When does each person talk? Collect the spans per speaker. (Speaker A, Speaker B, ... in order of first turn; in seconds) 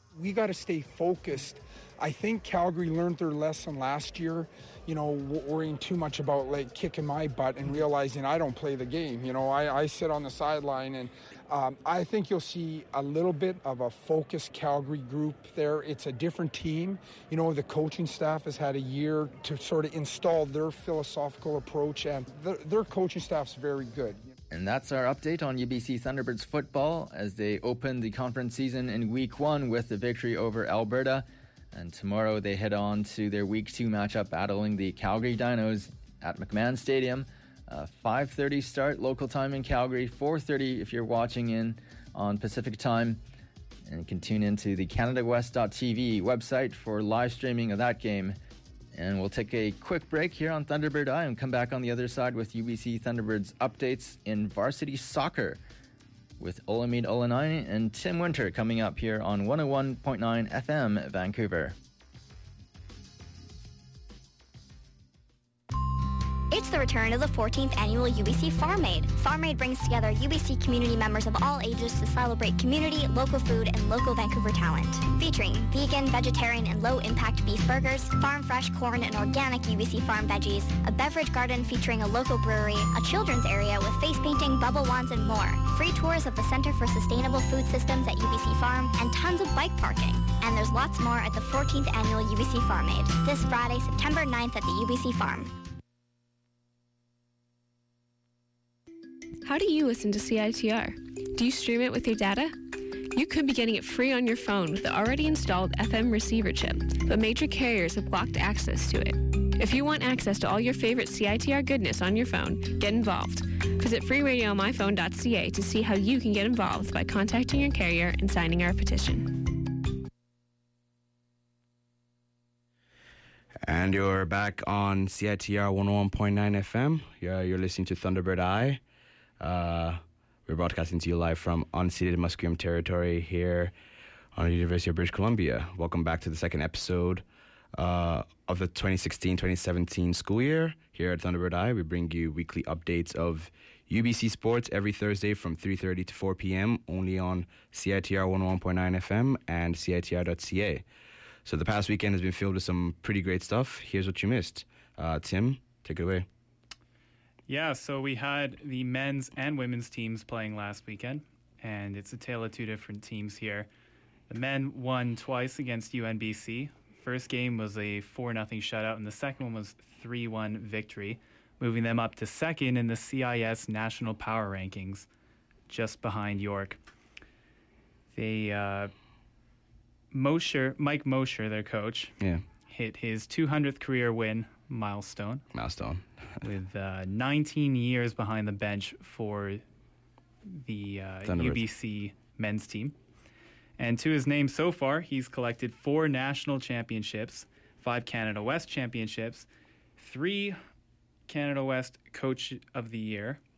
Speaker A: 0.2-24.1
Speaker B: 24.5-43.2, 43.9-48.4, 48.9-55.6, 56.4-61.7
Speaker C: 66.5-95.5
Speaker D: 99.4-102.6, 103.1-119.3
Speaker E: 123.6-128.8, 129.4-133.7, 134.3-137.2, 137.8-150.8, 151.4-156.2, 185.5-186.4, 191.2-191.6
Speaker F: 157.5-163.7, 164.3-175.1, 175.7-176.8, 178.1-178.9, 180.1-182.2, 182.7-185.4, 186.4-189.6, 190.4-192.9, 193.8-200.6, 201.3-203.4